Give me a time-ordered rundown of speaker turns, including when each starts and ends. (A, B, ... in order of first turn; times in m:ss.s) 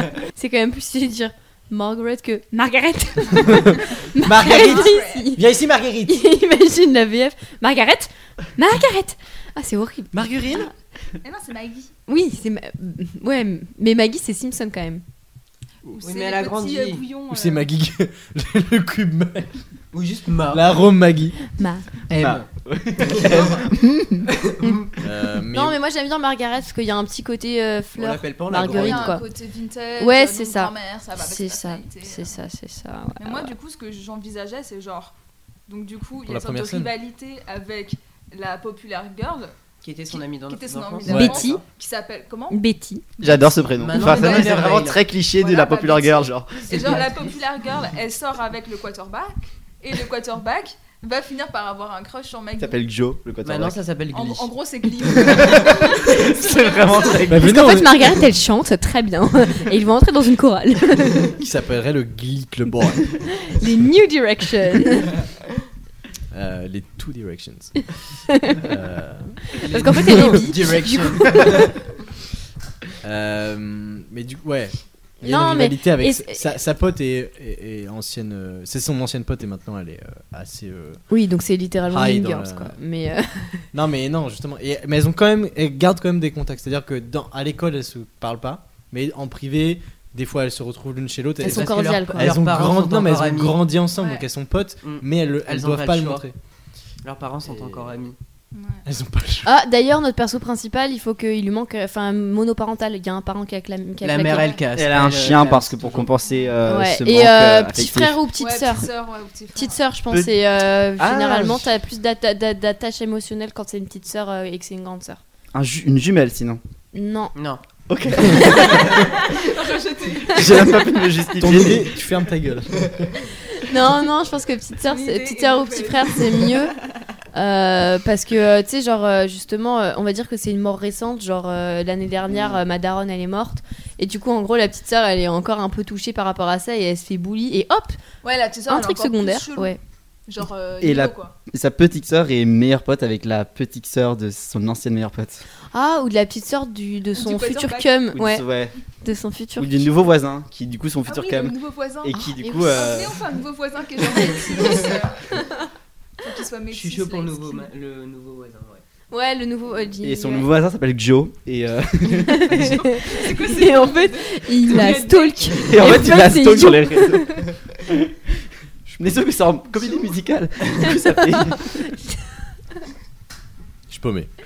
0:00.3-0:05.4 A
0:04.2-0:06.2 B
0:04.4-0:05.3 C
0:06.0-0:10.7 A
0:10.1-0:10.7 B
0:11.2-0:11.9 C
0:12.1-0:15.0 A
0:15.9-0:17.7 C
0:16.0-0:17.0 D
0:17.3-0:19.5 B
0:19.9-0:20.7 D
0:20.5-0:21.4 B
0:21.5-0:21.8 A
0:22.1-0:22.5 D
0:22.2-0:24.3 E
0:23.0-0:23.6 D
0:24.4-0:24.9 D
0:25.0-0:25.8 B
0:25.5-0:29.2 A
0:28.0-0:29.2 D
0:28.6-0:32.3 C
0:30.0-0:33.5 A
0:33.2-0:35.1 C
0:35.7-0:39.5 C
0:36.2-0:36.9 B
0:39.8-0:41.6 D
0:40.1-0:42.6 C
0:41.1-0:41.6 A
0:41.1-0:41.4 B
0:42.5-0:43.0 A
0:43.2-0:52.8 C
0:43.2-0:46.7 E
0:43.8-0:45.0 D
0:46.7-0:47.4 D
0:52.6-0:53.8 E
0:53.4-0:54.5 D
0:54.1-0:57.3 C
0:55.2-0:57.8 E
0:57.3-0:58.1 B
0:57.4-1:01.3 A
1:01.3-1:03.2 B
1:03.4-1:05.2 A
1:06.3-1:07.9 B
1:08.5-1:10.2 B
1:09.6-1:11.7 D
1:09.6-1:11.7 A
1:13.0-1:21.0 B
1:15.2-1:16.6 A
1:21.1-1:23.6 A
1:21.9-1:22.7 B
1:23.7-1:36.3 B
1:31.4-1:32.3 A
1:31.4-1:33.6 D
1:34.0-1:34.2 C
1:34.8-1:36.2 D
1:37.0-1:38.2 D
1:37.4-1:38.0 B
1:38.5-1:38.8 C
1:38.8-1:39.5 B
1:39.4-1:44.5 A
1:44.0-1:46.1 D
1:44.3-1:44.6 C
1:44.7-1:48.2 E
1:46.6-1:48.9 A
1:48.4-1:49.8 C
1:49.5-1:55.2 A
1:50.1-1:51.7 E
1:55.5-1:56.6 E
1:56.9-1:57.3 A
1:57.3-1:57.6 D
1:57.9-1:59.1 E
1:58.4-1:58.9 A
1:59.0-2:00.9 C
2:00.3-2:01.9 E
2:01.4-2:03.2 B
2:03.6-2:06.7 A
2:04.8-2:06.8 C
2:07.3-2:18.0 A
2:18.2-2:21.3 C
2:18.7-2:19.8 A
2:20.8-2:25.4 E
2:25.7-2:28.4 A
2:27.1-2:28.0 C
2:28.1-2:28.7 E
2:29.0-2:29.8 A
2:29.6-2:33.2 E
2:31.1-2:35.3 C
2:32.1-2:33.0 A
2:34.1-2:34.9 A
2:36.2-2:37.7 C
2:36.7-2:38.8 D
2:39.1-2:40.5 A
2:40.0-2:42.6 E
2:42.1-2:47.5 A
2:42.4-2:46.3 C
2:45.6-2:48.1 E
2:48.8-2:51.7 E
2:50.8-2:52.3 A
2:53.9-2:54.3 B